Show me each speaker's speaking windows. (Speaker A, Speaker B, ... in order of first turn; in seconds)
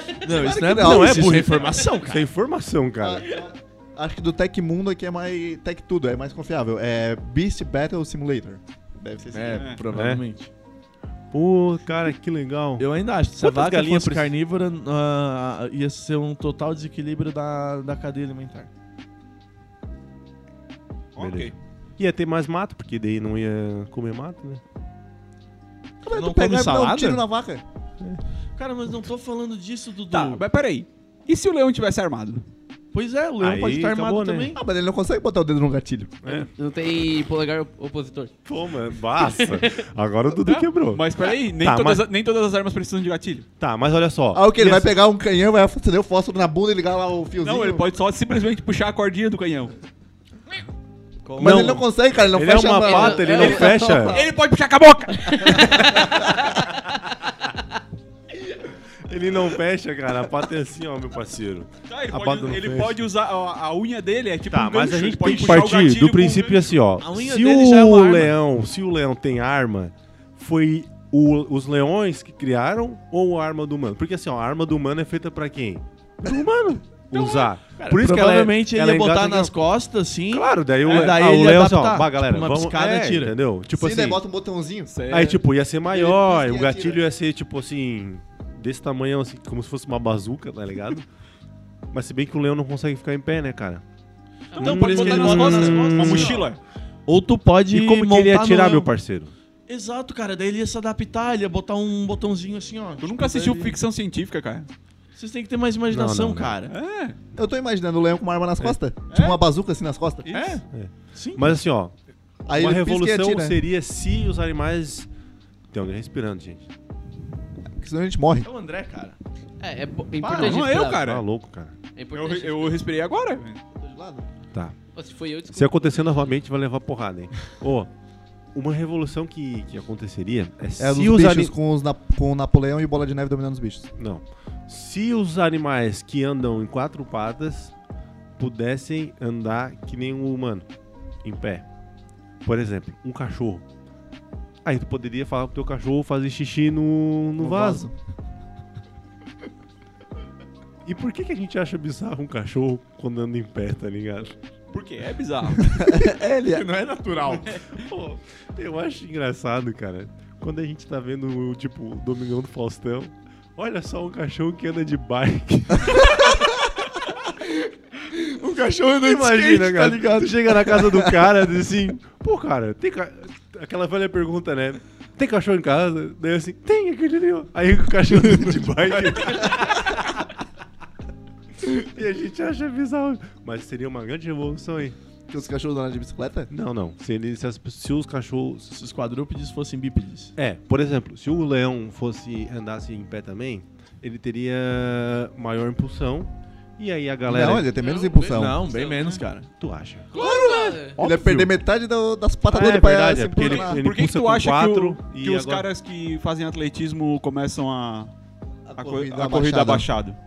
Speaker A: 0.2-2.2, 9.3-10.5, 12.8-18.7, 26.1-27.2, 28.6-30.4, 32.9-34.6, 51.2-51.8, 67.0-68.3, 77.7-83.3, 94.6-96.4, 97.1-98.9, 99.7-103.8, 105.2-106.7, 110.3-111.6, 118.4-119.2, 156.5-157.6, 168.1-171.0, 188.7-190.3, 198.2-199.5
Speaker B: 0.3-1.6, 3.0-9.7, 26.0-27.6, 34.5-36.2, 44.3-47.8, 51.4-54.2, 83.7-85.0, 85.9-87.0, 107.3-110.5, 112.5-113.6, 117.8-118.5, 123.8-124.3, 130.8-133.9, 147.4-147.9, 155.6-156.7, 185.3-186.5, 197.2-198.6, 200.2-203.8, 208.7-209.9
Speaker C: 0.8-3.2, 9.9-10.2, 11.3-12.8, 13.4-14.3, 21.2-24.6, 33.4-34.5, 36.2-36.5, 38.4-41.0, 41.6-42.0, 43.6-44.9, 51.4-54.2, 59.0-63.0, 64.5-79.5, 80.3-84.2, 85.1-91.1, 91.9-93.8, 94.6-96.4, 97.7-99.3, 105.9-106.6, 110.7-111.9, 112.5-115.1, 115.7-116.7, 120.3-121.7, 125.5-127.9, 128.5-131.5, 134.0-137.7, 138.4-140.7, 141.2-141.6, 142.4-143.6, 144.6-147.8, 150.8-154.3, 157.7-166.5, 169.0-180.2, 181.6-185.0, 186.5-188.8, 190.4-197.7, 199.6-200.1, 201.0-201.5, 202.4-205.7
Speaker D: 21.1-21.5, 30.1-32.5, 40.9-43.5, 47.4-49.7, 54.1-56.5, 61.9-66.8, 80.8-81.1, 84.9-85.4, 94.5-96.6, 103.0-104.7, 106.7-107.2, 109.1-109.4, 120.3-121.2, 122.1-123.6, 154.7-155.9, 198.9-199.2, 203.4-208.1, 208.8-210.2
Speaker E: 36.3-38.3, 39.1-39.8, 52.8-54.2, 55.2-56.5, 94.5-94.8, 119.6-121.0, 122.0-122.8, 124.9-126.2, 197.8-199.1, 200.1-201.0